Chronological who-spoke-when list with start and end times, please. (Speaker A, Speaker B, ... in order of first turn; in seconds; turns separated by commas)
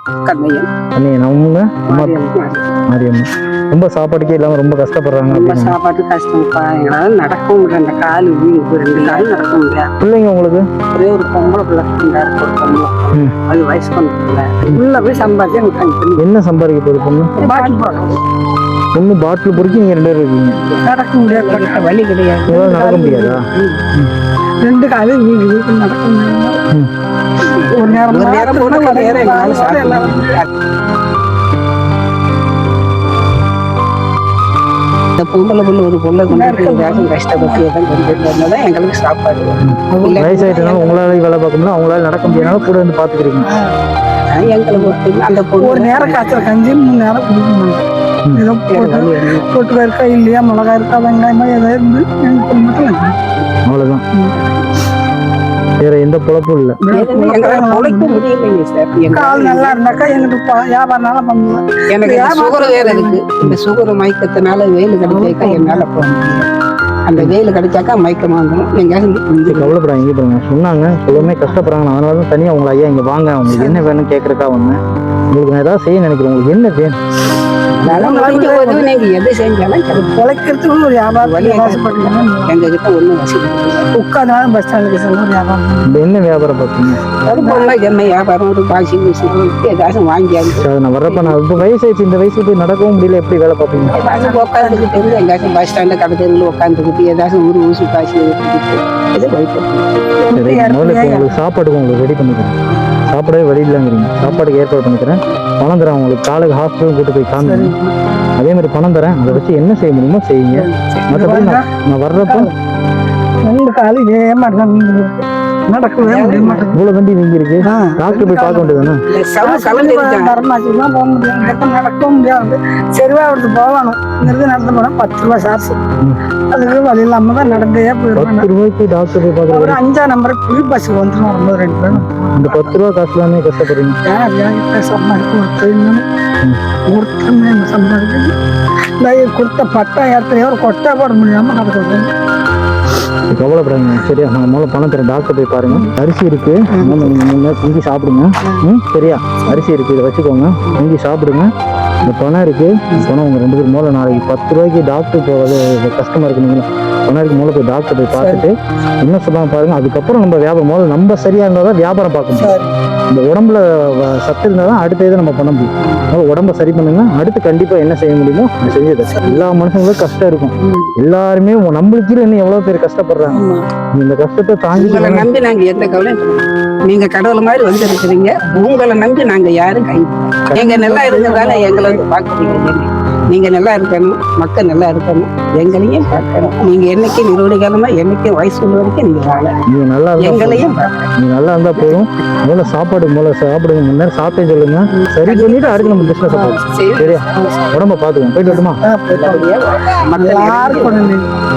Speaker A: 0.2-0.7, Speaker B: 0.9-2.2, Speaker A: 1.9-2.7, Speaker B: 2.9-5.8, Speaker A: 5.3-9.9, Speaker B: 10.0-10.7, Speaker A: 10.9-14.6, Speaker C: 14.7-15.8, Speaker A: 15.4-16.2, Speaker B: 16.2-17.3, Speaker A: 17.4-18.0, Speaker C: 17.4-18.1, Speaker B: 18.9-20.6, Speaker A: 20.6-23.8, Speaker C: 20.8-21.9, Speaker B: 22.5-23.4, Speaker C: 22.7-23.4, Speaker C: 24.6-26.6, Speaker A: 27.5-30.5, Speaker C: 27.7-30.3, Speaker A: 35.2-41.2, Speaker C: 36.3-37.6, Speaker B: 39.6-43.5, Speaker C: 39.9-40.6, Speaker C: 42.2-42.7, Speaker C: 43.5-43.7, Speaker A: 44.3-46.5, Speaker C: 44.7-45.0, Speaker C: 45.6-53.2, Speaker A: 48.7-49.5, Speaker B: 53.6-54.0, Speaker C: 54.1-54.4, Speaker B: 55.8-56.8, Speaker C: 56.8-58.2, Speaker A: 56.9-60.0, Speaker C: 59.1-63.2, Speaker A: 61.9-66.5, Speaker C: 65.0-66.4, Speaker A: 67.1-69.7, Speaker B: 69.5-74.8, Speaker C: 71.1-71.7, Speaker C: 73.5-73.8, Speaker B: 75.3-77.0, Speaker A: 77.8-80.2, Speaker C: 77.8-78.9, Speaker C: 79.9-82.6, Speaker A: 81.2-83.9, Speaker C: 83.9-86.0, Speaker B: 85.9-87.0, Speaker A: 87.2-91.5, Speaker C: 87.3-87.8, Speaker B: 90.6-94.0, Speaker A: 93.9-99.9, Speaker C: 93.9-95.2, Speaker C: 100.2-101.4, Speaker B: 100.3-102.5, Speaker B: 103.1-107.7, Speaker C: 107.4-107.9, Speaker B: 108.4-112.5, Speaker C: 110.5-111.7, Speaker C: 112.2-112.5, Speaker C: 113.4-116.8, Speaker A: 116.0-116.7, Speaker B: 116.7-119.0, Speaker C: 117.7-125.8, Speaker A: 119.1-120.3, Speaker C: 126.5-128.5, Speaker B: 128.1-129.8, Speaker C: 129.5-132.7, Speaker B: 131.9-134.0, Speaker C: 134.1-136.0, Speaker C: 136.9-138.3, Speaker C: 139.0-142.1, Speaker B: 143.3-151.5, Speaker C: 146.7-147.2, Speaker B: 152.0-158.5, Speaker C: 158.1-158.4, Speaker B: 159.0-162.5, Speaker C: 162.3-162.7, Speaker B: 163.1-173.4, Speaker A: 165.8-166.1, Speaker C: 169.1-169.6, Speaker C: 173.3-173.6, Speaker B: 174.0-175.3, Speaker A: 174.7-189.6, Speaker C: 180.5-182.0, Speaker B: 189.7-198.8, Speaker A: 190.2-191.1, Speaker A: 195.0-197.2, Speaker C: 196.3-196.6, Speaker C: 198.4-199.5, Speaker A: 199.1-201.0, Speaker C: 200.1-201.3